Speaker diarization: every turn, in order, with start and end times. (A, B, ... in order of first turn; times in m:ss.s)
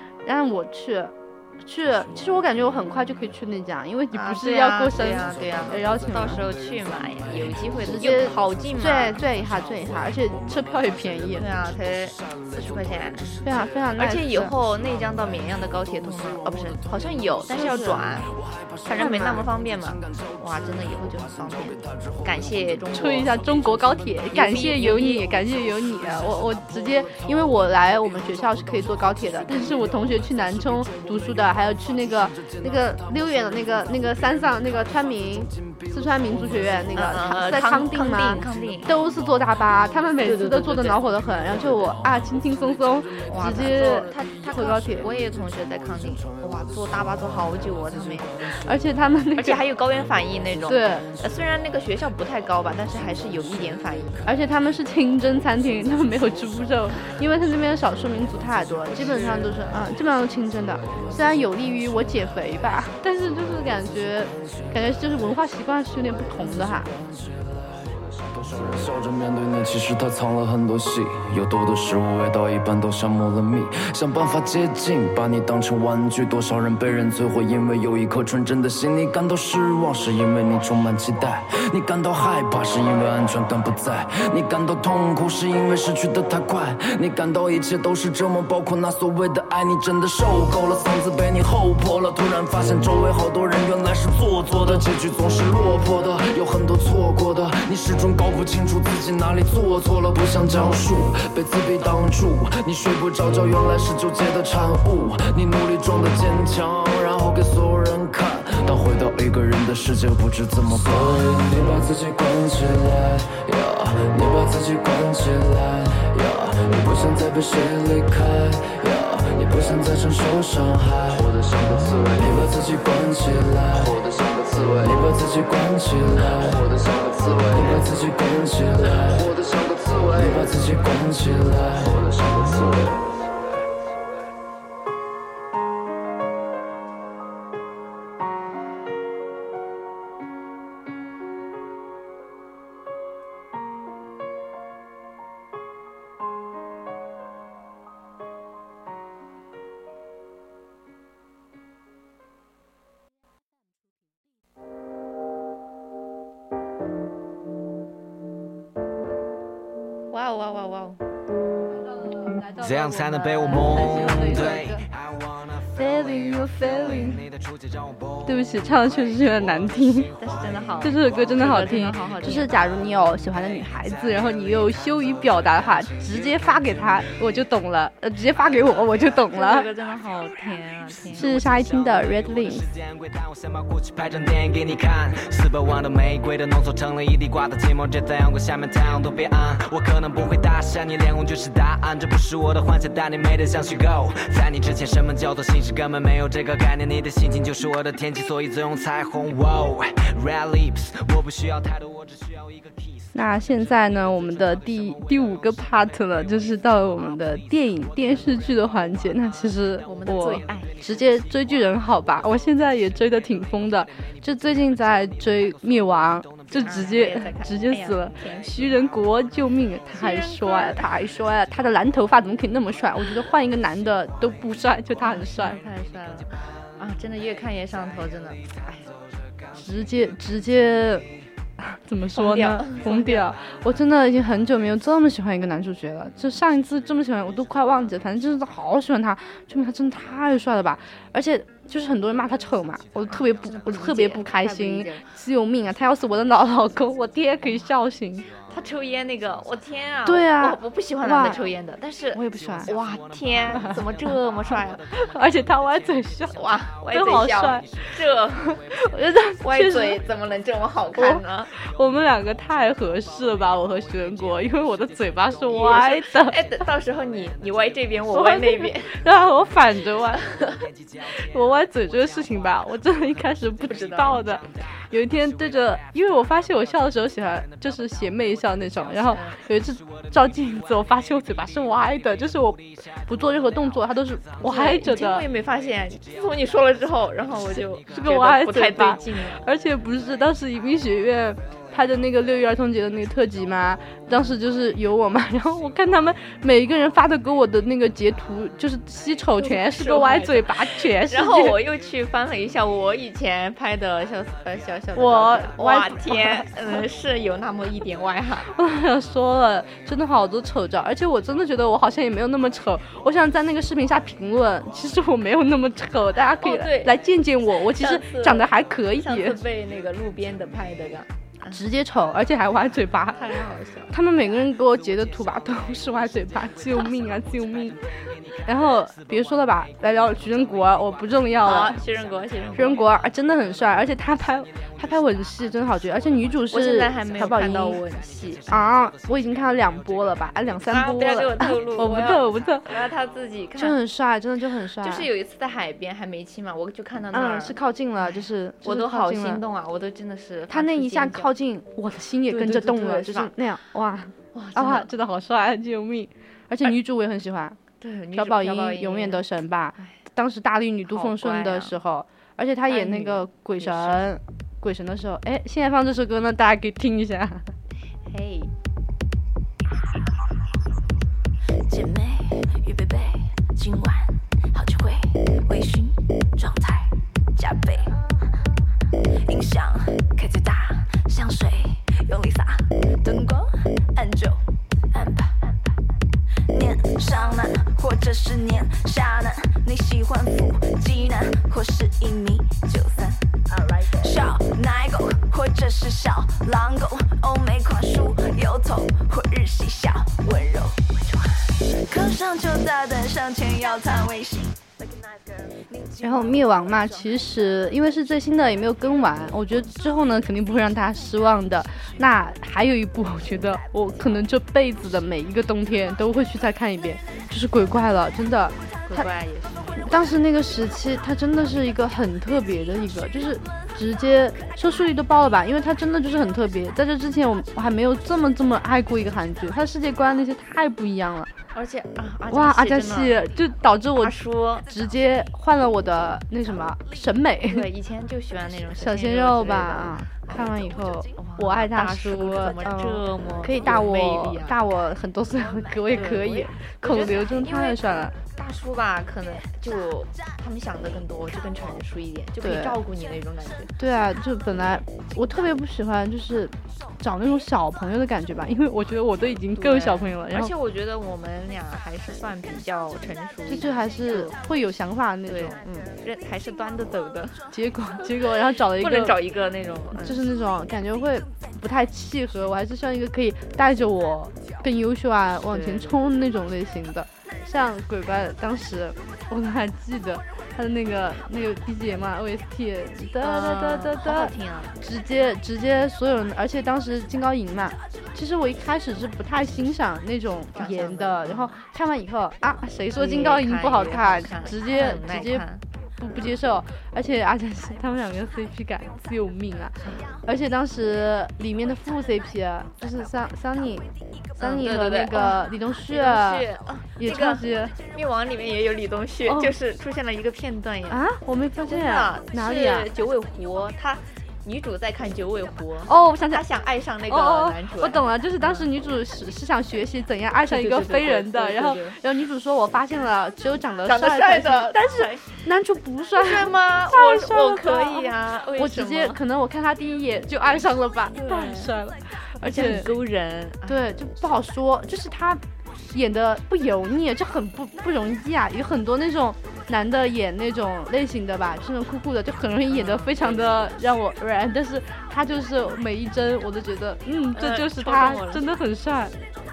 0:00.2-0:06.5 A
0:04.1-0:09.2 B
0:07.8-0:11.4 A
0:11.4-0:13.3 B
0:13.4-0:14.5 A
0:14.0-0:18.3 B
0:17.5-0:18.0 A
0:18.8-0:23.4 B
0:19.0-0:19.4 A
0:22.9-0:45.1 A
0:24.3-0:25.3 B
0:36.9-0:39.0 B
0:40.2-0:41.0 B
0:43.2-0:48.4 B
0:48.6-0:49.6 A
0:49.4-0:54.2 B
0:50.7-0:51.1 A
0:54.2-1:06.9 A
1:07.1-2:13.0 C
2:40.1-2:41.0 B
2:41.9-2:44.8 A
2:42.6-2:45.4 D
2:45.7-2:47.2 A
2:46.3-2:48.1 D
2:48.2-2:50.1 A
2:50.2-2:52.5 B
2:50.8-2:59.7 A
2:59.3-3:01.4 B
3:01.1-3:02.7 A
3:01.4-3:22.7 D
3:23.1-3:45.6 A
3:29.8-3:30.8 B
3:36.5-3:38.8 B
3:39.9-3:40.9 B
3:45.0-3:48.9 B
3:49.5-3:51.1 A
3:51.6-4:08.3 A
3:52.1-3:53.3 B
4:03.1-4:05.0 B
4:08.5-4:14.8 B
4:10.0-4:11.4 A
4:12.1-4:12.7 A
4:14.9-4:17.8 A
4:16.3-4:18.5 B
4:18.4-4:20.0 A
4:19.4-4:21.5 B
4:21.0-4:26.4 A
4:25.5-4:28.9 B
4:28.1-4:30.3 A
4:31.3-4:45.2 A
4:33.7-4:34.3 B
4:39.1-4:39.4 B
4:44.4-4:49.4 B
4:47.9-5:01.6 A
4:59.4-5:08.5 B
5:05.0-5:06.5 A
5:08.5-5:19.4 A
5:16.4-5:17.0 B
5:17.7-5:21.6 B
5:21.5-5:23.2 A
5:23.1-5:24.0 B
5:23.9-5:27.8 A
5:28.4-5:31.8 A
5:31.4-5:32.8 B
5:32.5-5:37.8 A
5:36.5-5:38.6 B
5:38.5-5:42.7 A
5:40.7-5:43.8 B
5:43.6-5:45.1 A
5:44.8-5:51.3 B
5:47.1-5:49.4 A
5:50.5-5:57.6 A
5:52.3-5:53.3 B
5:54.3-5:54.9 B
5:57.8-5:59.2 B
5:58.1-6:07.5 A
6:00.9-6:01.7 B
6:02.7-6:04.0 B
6:08.1-6:08.5 B
6:11.7-6:18.0 E
6:19.2-6:24.4 E
6:24.9-6:25.7 E
6:26.5-6:44.5 E
6:46.0-6:59.1 A
6:58.8-7:00.0 B
6:59.8-7:11.3 A
7:11.5-7:13.3 B
7:12.3-7:17.7 A
7:14.0-7:14.7 B
7:17.4-7:24.6 B
7:18.8-7:28.1 A
7:25.9-7:33.7 B
7:32.4-7:32.8 A
7:33.8-7:40.5 A
7:39.5-7:44.4 B
7:43.5-7:45.6 A
7:45.3-7:47.4 B
7:47.5-7:49.2 A
7:48.7-7:50.2 B
7:49.9-8:15.4 A
7:55.5-7:56.0 B
8:03.2-8:04.7 B
8:10.5-8:11.6 B
8:12.9-8:15.6 B
8:16.0-8:23.9 A
8:19.8-8:20.1 B
8:24.4-8:31.0 B
8:24.4-8:26.5 A
8:27.0-8:27.8 A
8:29.2-8:29.5 A
8:30.9-8:32.9 A
8:31.6-8:38.7 B
8:35.9-8:36.4 A
8:37.1-8:52.9 A
8:40.4-8:42.0 B
8:43.8-8:45.3 B
8:46.2-8:49.2 B
8:51.1-8:51.7 B
8:52.4-8:53.9 B
8:53.6-9:09.1 A
9:02.7-9:03.7 B
9:07.3-9:08.4 B